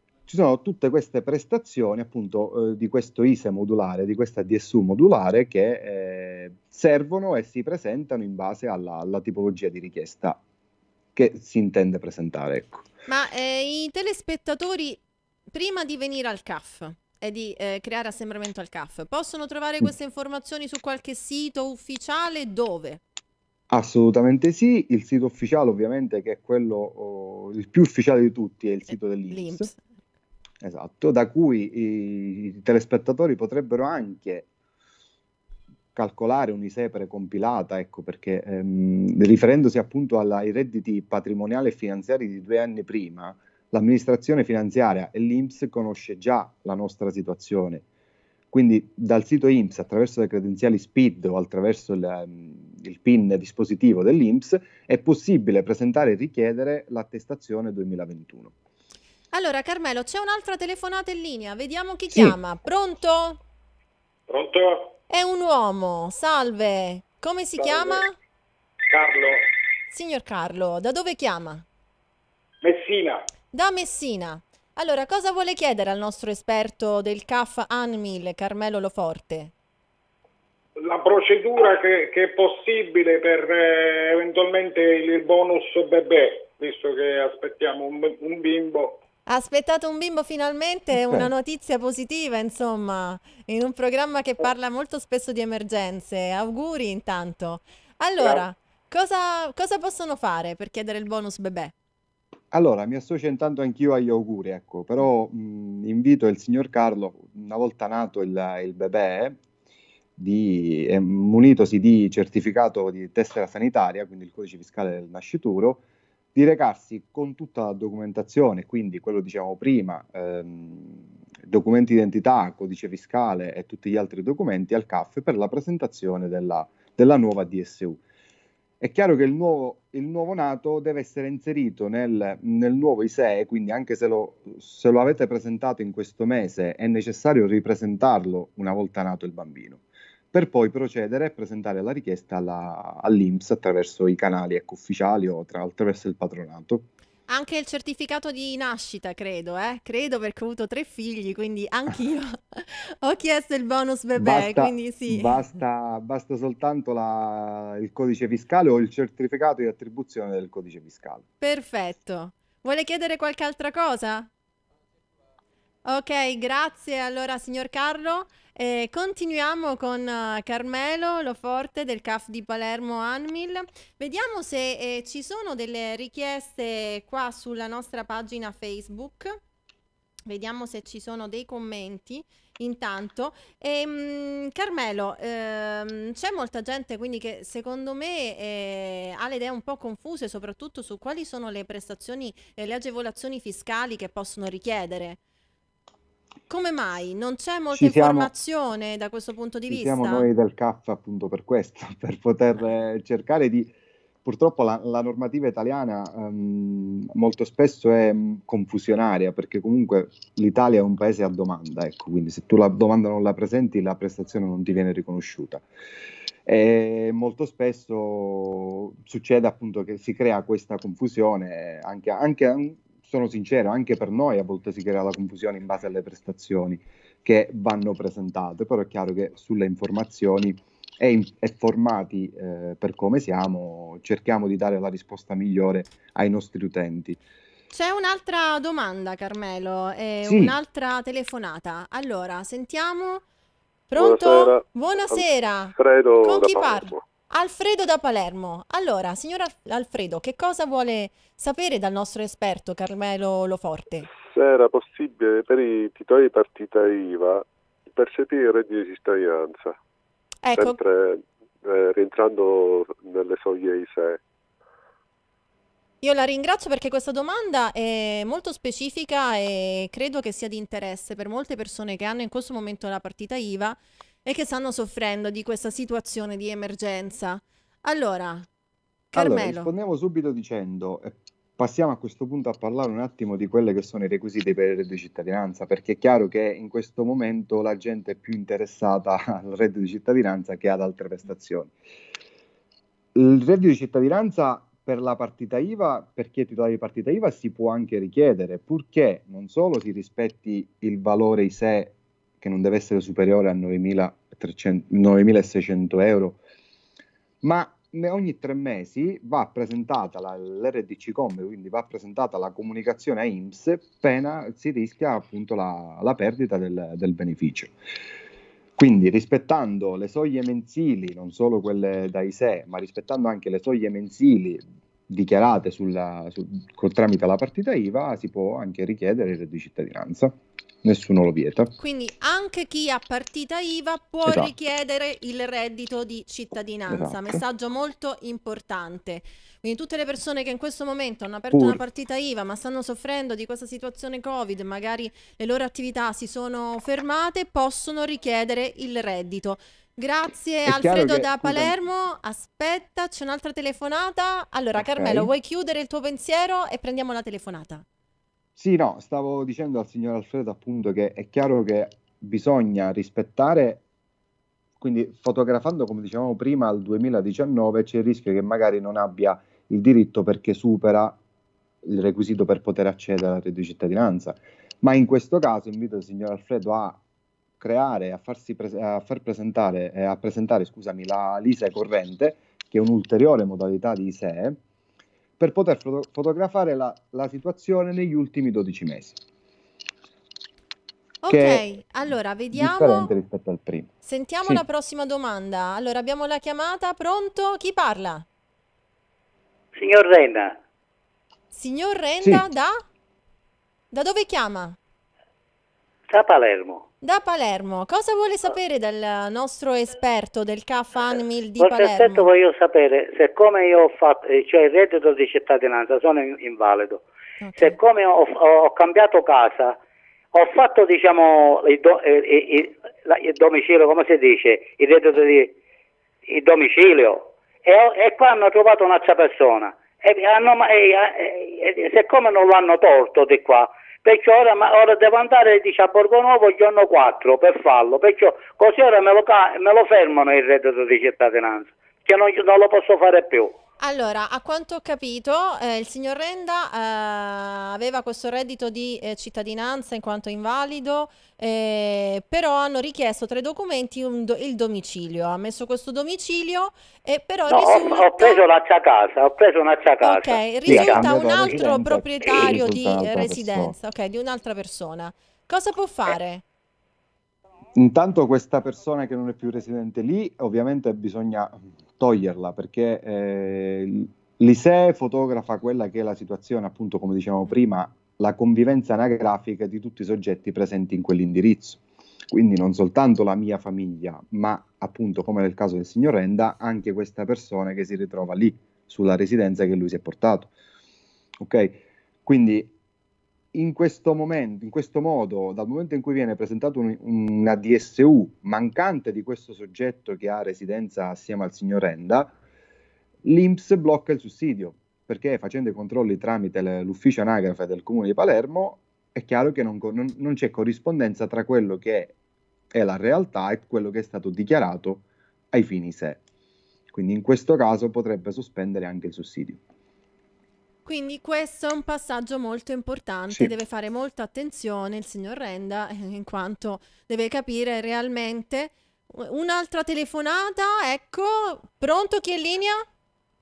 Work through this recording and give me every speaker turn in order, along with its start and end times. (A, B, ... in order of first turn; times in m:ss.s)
0:00.3-0:10.4 A
0:11.1-0:12.9 A
0:13.1-0:15.0 B
0:15.5-0:23.0 B
0:23.7-0:29.7 A
0:29.3-0:29.8 B
0:30.6-0:34.5 A
0:35.9-0:47.8 A
0:48.5-0:58.5 A
0:59.3-1:03.4 B
1:04.3-1:04.9 C
1:05.1-1:08.1 B
1:07.6-1:08.0 C
1:08.9-1:09.4 C
1:09.9-1:11.6 B
1:12.6-1:13.2 C
1:13.5-1:19.5 B
1:20.8-1:29.0 C
1:29.3-1:41.7 B
1:30.9-1:31.3 A
1:42.5-1:49.4 A
1:50.2-1:55.8 A
1:56.3-2:08.0 A
2:08.8-2:19.8 A
2:20.3-2:26.9 A
2:27.3-2:35.4 B
2:34.2-2:41.2 A
2:41.4-2:44.3 B
2:45.8-2:59.4 B
3:00.3-3:15.2 B
3:16.5-3:20.3 B
3:17.7-3:18.3 A
3:19.7-3:23.7 A
3:24.2-3:35.6 A
3:36.4-3:57.2 A
3:57.7-4:03.2 B
4:00.2-4:00.6 A
4:03.9-4:14.1 B
4:03.9-4:07.0 D
4:14.2-4:19.8 D
4:20.4-4:20.8 B
4:20.5-4:24.2 D
4:26.0-4:38.5 B
4:39.1-4:39.7 B
4:39.1-4:51.7 A
4:53.1-5:06.4 A
5:07.4-5:17.7 A
5:18.8-5:31.7 A
5:31.8-5:57.8 B
5:34.2-5:34.5 A
5:36.9-5:37.4 A
5:41.5-5:41.8 A
5:50.6-5:51.8 A
5:54.8-5:55.3 A
5:58.6-6:03.8 A
6:04.8-6:11.2 A
6:11.8-6:17.0 A
6:17.6-6:24.6 A
6:25.4-6:29.2 A
6:31.2-6:33.1 B
6:31.3-6:31.6 A
6:32.5-6:33.9 A
6:34.0-6:38.2 B
6:39.7-6:40.6 E
6:41.5-6:42.8 B
6:43.9-6:44.8 B
6:46.1-6:46.8 E
6:47.0-6:52.3 B
6:51.6-6:57.0 E
6:57.4-6:57.8 B
6:57.6-6:59.8 E
7:00.3-7:05.5 E
7:06.3-7:23.6 E
7:23.8-7:38.4 B
7:37.5-7:41.1 E
7:40.0-7:46.4 B
7:40.6-7:43.8 A
7:47.8-8:10.5 A
8:11.4-8:12.7 A
8:13.5-8:22.4 A
8:23.2-8:32.1 A
8:32.7-8:36.2 A
8:36.9-8:39.6 A
8:40.8-8:52.8 B